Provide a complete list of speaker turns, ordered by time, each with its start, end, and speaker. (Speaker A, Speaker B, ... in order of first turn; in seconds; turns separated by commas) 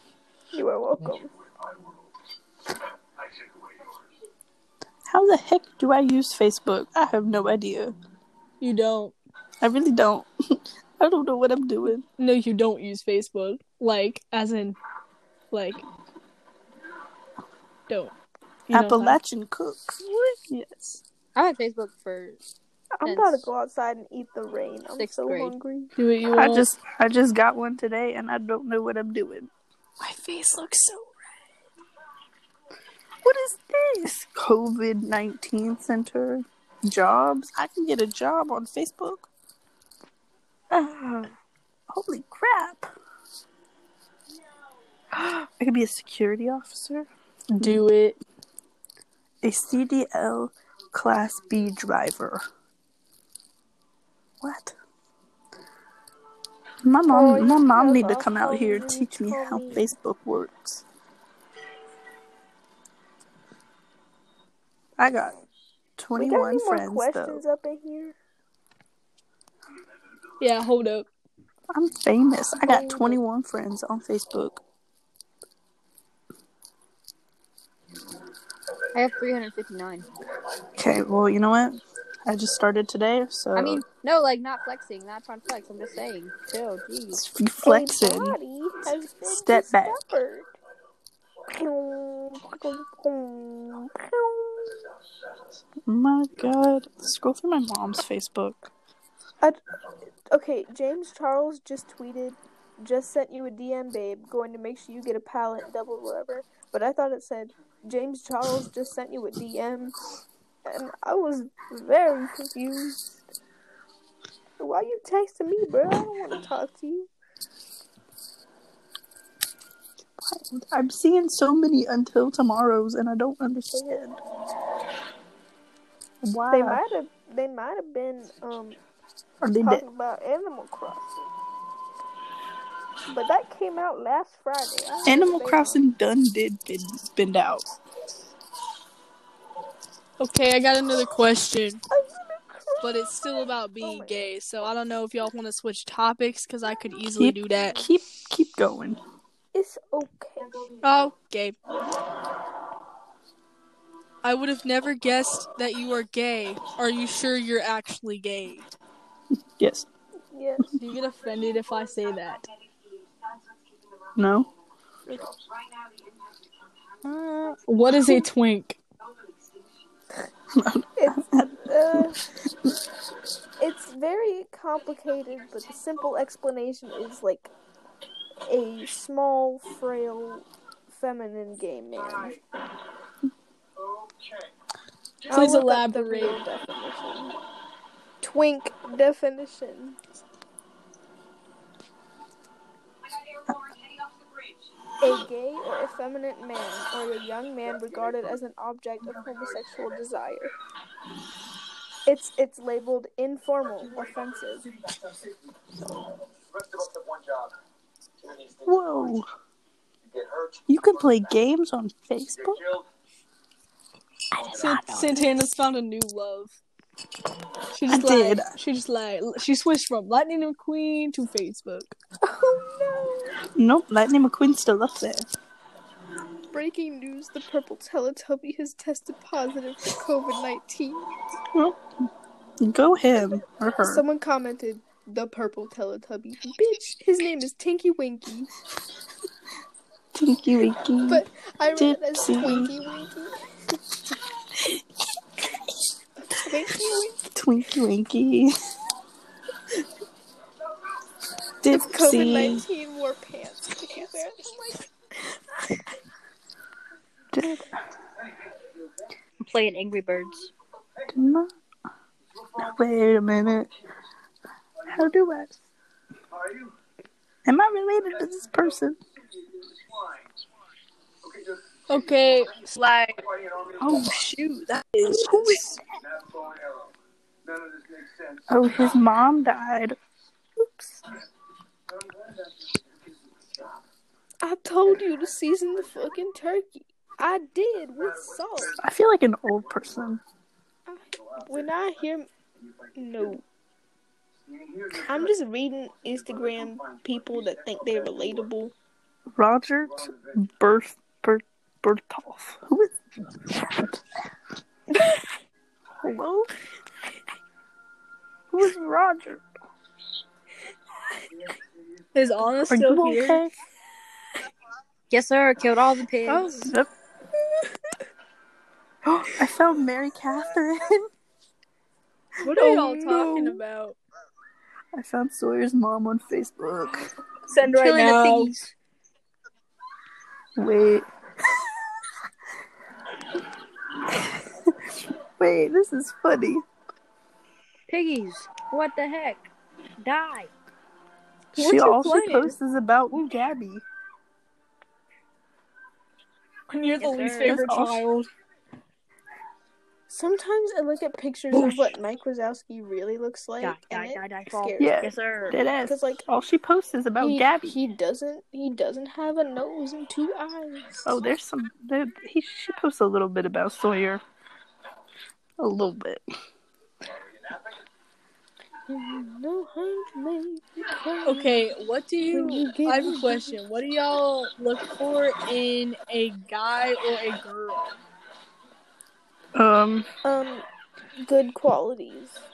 Speaker A: 0.5-1.3, Speaker B: 5.1-7.9, Speaker C: 8.6-9.2, Speaker B: 9.6-12.1, Speaker C: 12.2-14.8, Speaker C: 15.5-15.8, Speaker C: 17.9-18.1, Speaker C: 18.7-19.2, Speaker B: 18.7-21.0, Speaker D: 21.4-22.4, Speaker A: 23.0-25.9, Speaker D: 23.1-23.5, Speaker D: 25.0-25.6, Speaker C: 26.0-26.7, Speaker B: 26.3-29.5, Speaker C: 30.0-31.2, Speaker B: 33.2-39.3, Speaker B: 41.9-42.9, Speaker B: 45.6-47.1, Speaker C: 47.5-48.2, Speaker B: 49.4-52.4, Speaker B: 54.4-54.8, Speaker B: 56.8-60.8, Speaker A: 57.1-59.9, Speaker B: 65.0-65.4, Speaker B: 66.0-67.4, Speaker A: 66.1-68.2, Speaker C: 70.4-71.1, Speaker B: 71.7-74.6, Speaker A: 72.6-73.2, Speaker D: 78.9-80.1, Speaker B: 80.8-83.8, Speaker D: 83.6-87.2, Speaker B: 87.1-88.4, Speaker A: 87.6-90.5, Speaker B: 89.3-90.0, Speaker A: 91.5-94.8, Speaker B: 95.8-98.7, Speaker A: 100.3-110.0, Speaker A: 110.7-113.2, Speaker A: 114.6-117.1, Speaker B: 120.2-124.2, Speaker B: 126.2-126.8, Speaker A: 126.5-128.8, Speaker B: 129.4-129.8, Speaker A: 129.6-131.3, Speaker A: 133.1-135.8, Speaker B: 135.1-137.7, Speaker C: 140.2-141.8, Speaker A: 141.9-144.2, Speaker C: 142.8-147.8, Speaker B: 147.2-149.0, Speaker A: 149.5-150.6, Speaker C: 150.8-151.6, Speaker C: 154.2-158.7, Speaker B: 159.6-159.9, Speaker A: 160.3-160.7, Speaker C: 160.8-162.4, Speaker B: 164.2-164.5, Speaker D: 167.0-167.6, Speaker C: 167.7-168.8, Speaker B: 170.5-172.0, Speaker A: 171.0-172.2, Speaker A: 173.6-177.5, Speaker A: 178.4-182.4, Speaker A: 185.3-187.3, Speaker C: 185.3-186.4, Speaker A: 188.2-190.0, Speaker A: 195.0-200.5, Speaker A: 202.1-204.7, Speaker B: 208.6-209.3, Speaker B: 210.7-212.7, Speaker C: 214.4-216.6, Speaker D: 214.6-215.1, Speaker C: 217.7-222.0, Speaker B: 217.9-218.5, Speaker A: 222.2-223.4, Speaker B: 223.6-225.3, Speaker A: 226.5-231.2, Speaker B: 231.5-231.8, Speaker B: 232.6-234.0, Speaker A: 233.8-238.5, Speaker B: 240.2-241.2, Speaker A: 241.1-243.5, Speaker B: 241.8-242.7, Speaker B: 244.5-244.8, Speaker A: 246.3-247.3, Speaker B: 247.3-248.5, Speaker B: 251.6-252.7, Speaker A: 251.7-254.8, Speaker B: 257.3-257.8, Speaker D: 259.4-260.5, Speaker B: 261.1-261.5, Speaker B: 262.6-263.7, Speaker B: 264.9-265.6, Speaker B: 267.4-269.0, Speaker C: 271.9-273.3, Speaker B: 273.8-275.8, Speaker C: 274.9-275.6, Speaker B: 278.5-280.0, Speaker B: 280.6-281.0, Speaker A: 284.4-288.8, Speaker B: 288.8-290.2, Speaker A: 290.9-292.3, Speaker A: 292.9-293.4, Speaker A: 294.9-298.7, Speaker B: 299.4-304.0, Speaker B: 306.0-306.5, Speaker B: 308.5-309.4, Speaker C: 312.1-313.4, Speaker B: 312.7-313.5, Speaker D: 315.1-316.7, Speaker B: 316.6-316.9, Speaker B: 319.1-321.0, Speaker C: 322.4-324.0, Speaker A: 322.5-323.6, Speaker B: 324.9-327.1, Speaker C: 327.5-328.6, Speaker D: 327.7-328.7, Speaker B: 330.6-331.1, Speaker B: 334.1-334.9, Speaker B: 335.4-336.6, Speaker D: 337.9-339.5, Speaker D: 340.0-340.5, Speaker B: 341.5-343.8, Speaker C: 341.6-342.5, Speaker C: 346.7-348.3, Speaker D: 347.0-347.6, Speaker B: 347.4-348.0, Speaker A: 350.1-354.9, Speaker D: 353.6-355.6, Speaker B: 354.8-357.8, Speaker A: 355.8-356.2, Speaker A: 357.2-361.1, Speaker B: 361.1-364.2, Speaker B: 365.6-366.2, Speaker A: 368.9-371.7, Speaker C: 371.2-378.0, Speaker A: 372.3-373.6, Speaker B: 379.6-380.1, Speaker A: 380.2-380.7, Speaker A: 381.2-382.4